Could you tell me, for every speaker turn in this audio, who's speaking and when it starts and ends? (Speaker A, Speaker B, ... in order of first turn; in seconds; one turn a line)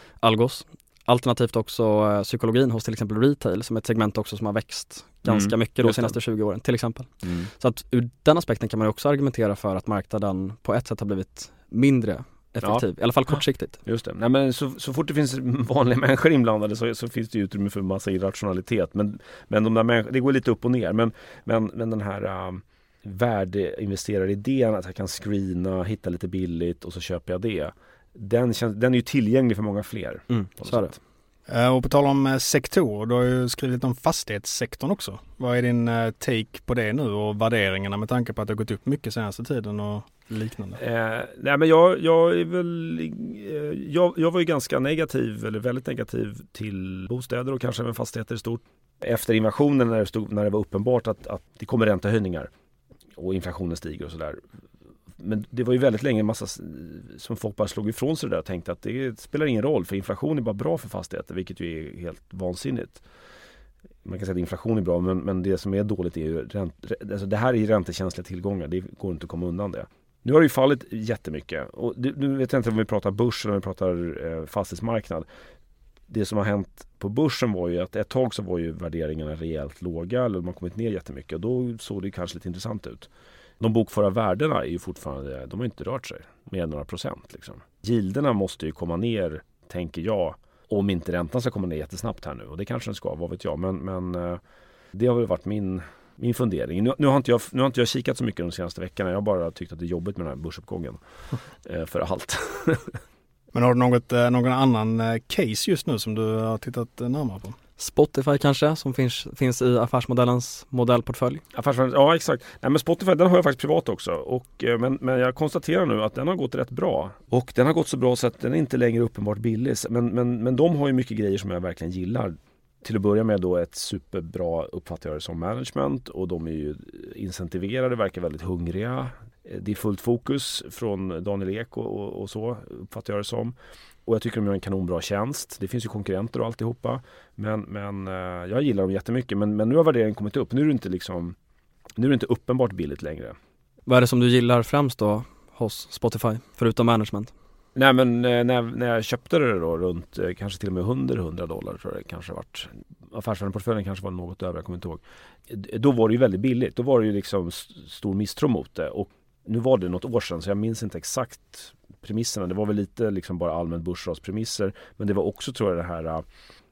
Speaker A: 0.2-13.8
Speaker B: 5.2-6.2
Speaker B: 7.2-7.5
Speaker B: 12.6-31.0
Speaker A: 30.3-30.9
Speaker C: 31.5-40.8
Speaker B: 40.8-52.5
Speaker B: 53.1-54.4
Speaker B: 55.2-63.0
Speaker B: 64.0-75.3
Speaker B: 76.1-83.1
Speaker B: 83.6-94.4
Speaker B: 94.9-101.0
Speaker B: 101.6-103.0
Speaker C: 103.5-107.5
Speaker A: 107.8-111.4
Speaker B: 111.5-133.5
Speaker B: 134.1-141.3
Speaker B: 142.0-143.3
Speaker A: 143.9-147.3
Speaker B: 147.8-166.2